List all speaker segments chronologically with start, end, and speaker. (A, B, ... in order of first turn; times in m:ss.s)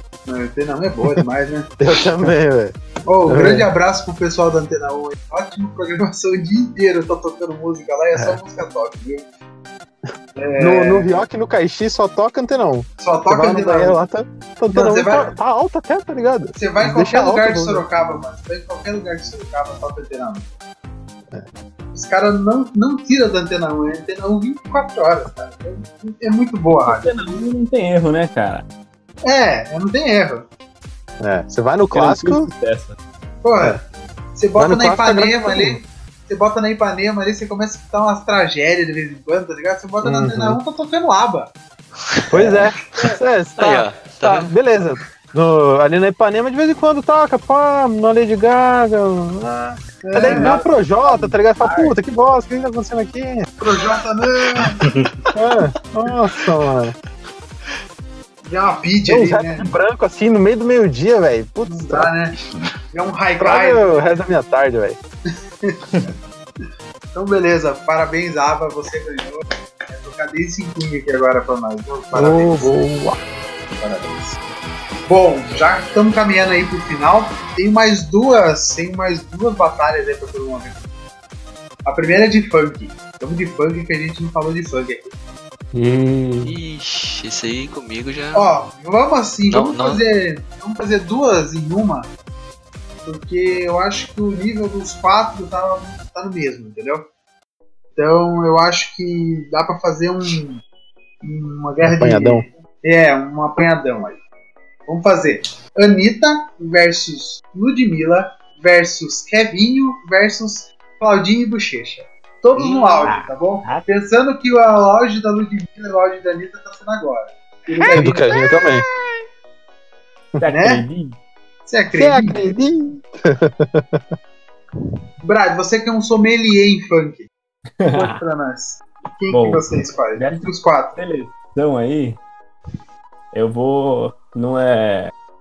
0:00.3-0:01.7 A
0:01.8-0:03.7 B
0:03.1-0:09.3 A
0:10.4-0:11.1 A
0:10.6-0:17.8 B
0:13.0-0:14.0 A
0:14.7-0:15.3 A
0:16.6-0:20.5 A
0:21.9-0:27.2 A
0:26.8-0:28.6 C
0:29.2-0:30.5 A
0:31.2-0:32.5 B
0:31.9-0:33.0 C
0:33.4-0:33.8 A
0:34.4-0:41.5 A
0:34.6-0:35.8 B
0:40.0-0:40.6 B
0:42.2-0:42.5 D
0:42.3-0:53.5 B
0:43.6-0:44.5 D
0:50.0-0:50.7 A
0:50.2-0:50.6 C
0:51.3-0:51.9 A
0:53.6-0:54.8 A
0:55.4-0:57.0 B
0:58.5-0:59.7 A
0:59.1-1:02.1 B
1:01.7-1:02.4 A
1:02.9-1:04.0 A
1:03.4-1:05.0 B
1:05.6-1:06.1 A
1:07.1-1:12.7 A
1:12.1-1:13.2 B
1:13.8-1:14.4 A
1:15.1-1:20.8 A
1:21.8-1:25.1 A
1:25.7-1:26.5 C
1:26.4-1:28.5 D
1:28.3-1:32.1 A
1:29.5-1:30.0 D
1:33.1-1:37.1 A
1:38.0-1:40.6 A
1:41.2-1:44.2 A
1:41.8-1:42.5 B
1:44.9-1:58.4 A
1:52.6-1:53.9 C
1:58.0-1:58.8 B
2:00.4-2:01.2 C
2:00.5-2:00.8 A
2:01.7-2:02.4 A
2:01.9-2:04.0 B
2:05.2-2:07.3 A
2:07.8-2:08.2 C
2:07.9-2:11.0 A
2:09.3-2:09.6 C
2:10.2-2:12.2 C
2:13.3-2:15.1 C